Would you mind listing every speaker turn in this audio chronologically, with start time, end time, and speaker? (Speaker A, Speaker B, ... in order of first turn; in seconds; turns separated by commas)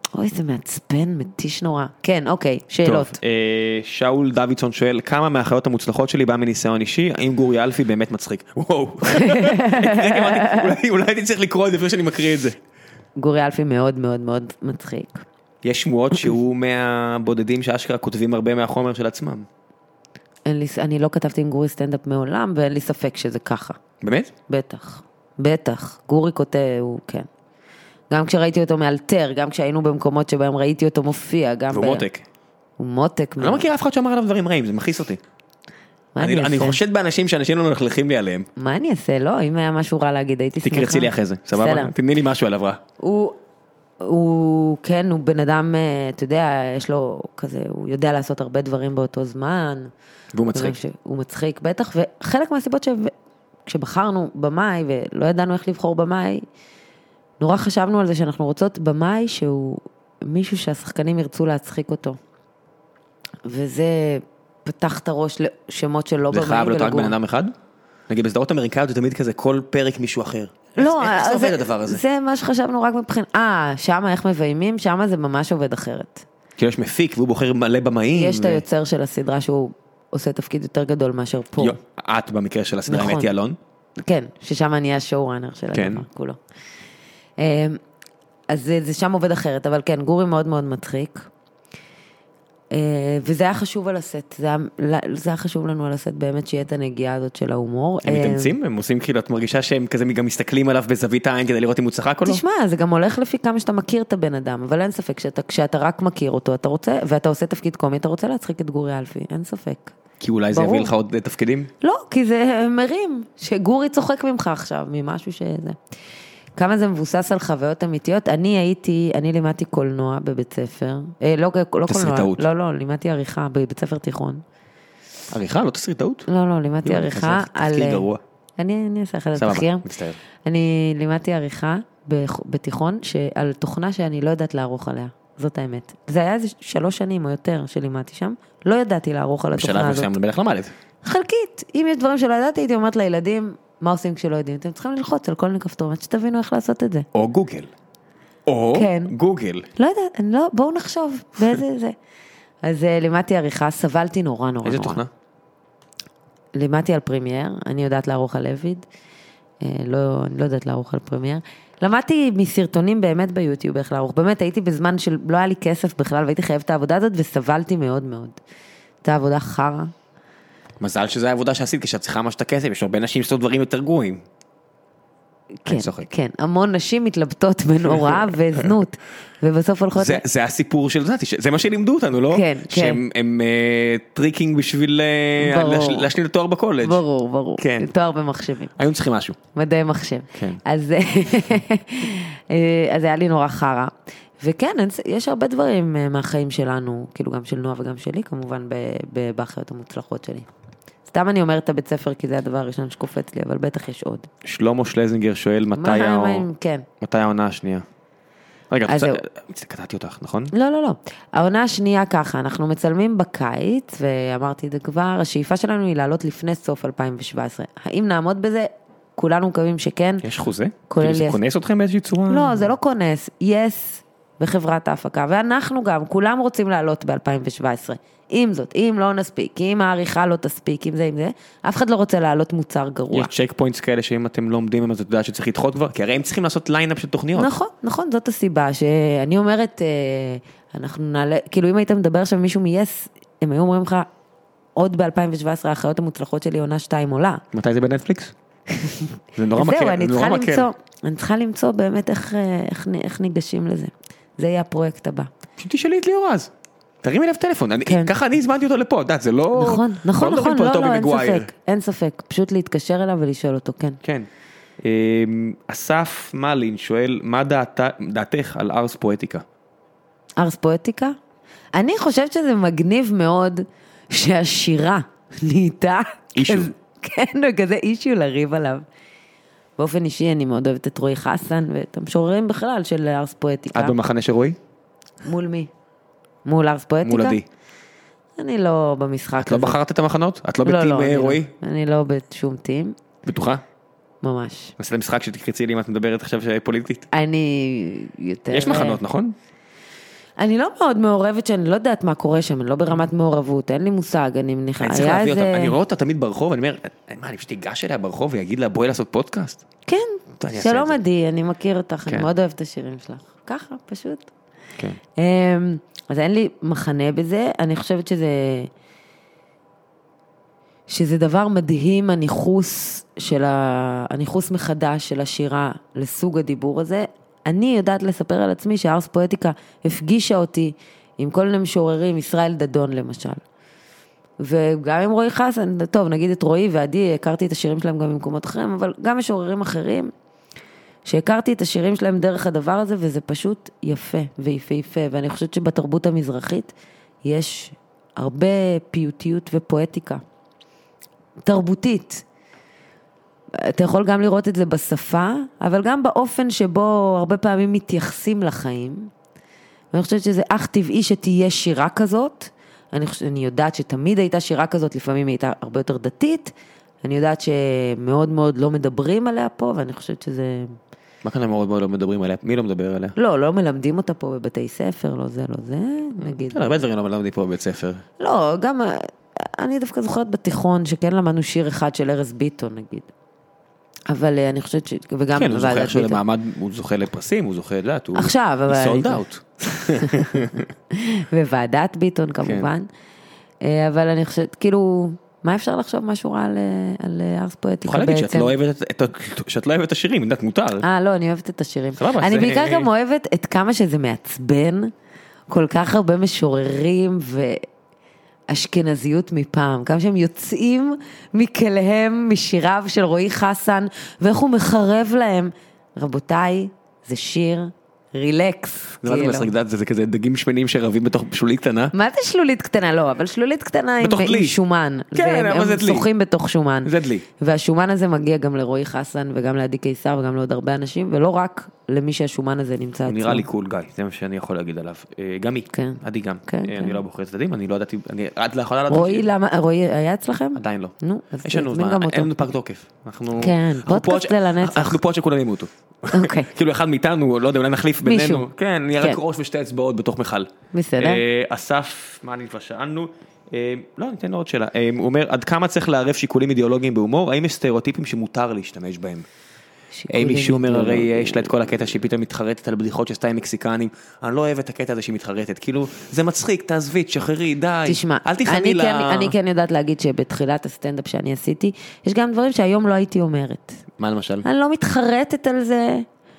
Speaker A: 0.1-3.2, Speaker B: 2.8-12.6, Speaker A: 9.1-10.7, Speaker A: 13.2-15.2, Speaker B: 15.6-19.5, Speaker A: 20.4-23.8, Speaker B: 24.0-24.3, Speaker A: 24.5-27.3, Speaker A: 28.1-32.0, Speaker B: 31.7-32.2, Speaker A: 32.8-33.6, Speaker B: 33.4-35.2, Speaker A: 36.1-36.8, Speaker B: 36.2-38.5, Speaker A: 38.5-41.9, Speaker B: 40.6-42.8, Speaker A: 43.0-43.4, Speaker A: 44.0-49.9, Speaker B: 50.3-50.8, Speaker A: 50.5-53.1, Speaker A: 53.6-56.4, Speaker A: 57.4-62.2, Speaker A: 63.4-67.2, Speaker B: 66.3-67.5, Speaker B: 68.1-72.0, Speaker A: 70.8-76.3, Speaker B: 76.6-78.6, Speaker A: 78.1-81.8, Speaker B: 81.6-83.6, Speaker A: 82.9-83.3, Speaker A: 84.0-86.4, Speaker B: 85.7-86.0, Speaker A: 87.4-87.8, Speaker A: 88.5-91.3, Speaker A: 92.7-98.5, Speaker B: 98.0-102.4, Speaker A: 102.2-109.9, Speaker B: 110.2-111.7, Speaker A: 110.5-110.9, Speaker A: 111.8-115.8, Speaker A: 116.5-124.4, Speaker B: 121.9-122.5, Speaker B: 125.3-126.3, Speaker A: 126.3-128.1, Speaker B: 126.8-128.2, Speaker A: 128.6-129.8, Speaker B: 129.3-130.2, Speaker A: 130.4-140.1, Speaker B: 139.6-140.7, Speaker A: 141.0-147.1, Speaker B: 147.1-147.7, Speaker B: 148.5-149.7, Speaker A: 148.7-149.1, Speaker A: 149.8-151.9, Speaker A: 152.6-155.0, Speaker B: 154.6-155.1, Speaker A: 156.5-158.8, Speaker A: 159.6-168.4, Speaker A: 169.0-169.9, Speaker B: 170.8-174.2, Speaker A: 175.6-180.2, Speaker B: 175.7-176.1, Speaker B: 177.9-178.2, Speaker B: 179.9-187.0, Speaker A: 182.3-183.0, Speaker A: 185.4-186.1, Speaker A: 186.8-188.7, Speaker B: 187.6-187.9, Speaker B: 188.8-189.4, Speaker A: 189.5-200.5, Speaker B: 190.3-190.6, Speaker A: 201.1-204.3, Speaker B: 204.4-206.4, Speaker A: 205.7-206.8, Speaker B: 207.0-207.8, Speaker B: 208.7-210.5, Speaker A: 208.9-209.2, Speaker A: 210.5-220.2, Speaker B: 220.2-222.7, Speaker A: 220.9-221.4, Speaker A: 222.3-233.3, Speaker B: 233.1-237.5, Speaker A: 237.3-244.1, Speaker A: 244.8-247.4, Speaker B: 247.5-248.3, Speaker A: 248.7-255.3, Speaker B: 249.3-250.7, Speaker B: 255.6-256.5, Speaker B: 257.0-261.5, Speaker A: 257.9-258.1, Speaker A: 259.6-264.0, Speaker B: 264.8-269.4, Speaker A: 270.4-271.1, Speaker A: 271.7-278.8, Speaker B: 276.3-276.7, Speaker A: 279.8-283.9, Speaker B: 283.7-284.6, Speaker A: 285.2-285.7, Speaker A: 286.4-287.4, Speaker B: 287.0-287.4, Speaker A: 288.4-289.8, Speaker B: 289.4-291.5, Speaker A: 290.6-292.9, Speaker B: 293.3-293.6, Speaker A: 294.2-294.7, Speaker B: 294.8-297.1, Speaker A: 297.1-299.0, Speaker B: 298.5-299.3, Speaker A: 300.4-305.8, Speaker B: 304.8-309.6, Speaker A: 309.9-314.3, Speaker B: 310.4-311.0, Speaker A: 315.1-318.7, Speaker A: 320.9-333.4, Speaker A: 334.4-340.1, Speaker A: 341.1-350.2, Speaker A: 351.4-352.2, Speaker A: 353.6-359.1, Speaker A: 359.9-370.8, Speaker B: 371.2-373.1, Speaker A: 373.1-376.7, Speaker B: 376.2-378.0, Speaker A: 378.2-383.1, Speaker A: 384.1-386.2, Speaker B: 385.3-390.6, Speaker A: 388.1-389.2, Speaker A: 389.7-392.9, Speaker B: 392.4-392.7, Speaker A: 393.6-398.5, Speaker B: 397.8-400.9, Speaker A: 400.8-404.9, Speaker B: 402.0-402.9, Speaker A: 405.5-407.6, Speaker A: 408.5-419.5, Speaker B: 419.0-421.9, Speaker A: 421.9-433.4, Speaker B: 424.0-424.6, Speaker B: 425.1-426.1, Speaker B: 426.8-427.2, Speaker B: 433.1-439.3, Speaker A: 435.7-437.0, Speaker A: 438.9-442.3, Speaker B: 440.6-459.3, Speaker A: 443.4-445.0, Speaker A: 446.1-446.5, Speaker A: 448.0-448.5, Speaker A: 450.7-451.2, Speaker A: 459.9-461.5, Speaker B: 460.1-469.3, Speaker A: 467.9-473.8, Speaker B: 474.0-474.4, Speaker A: 474.4-476.1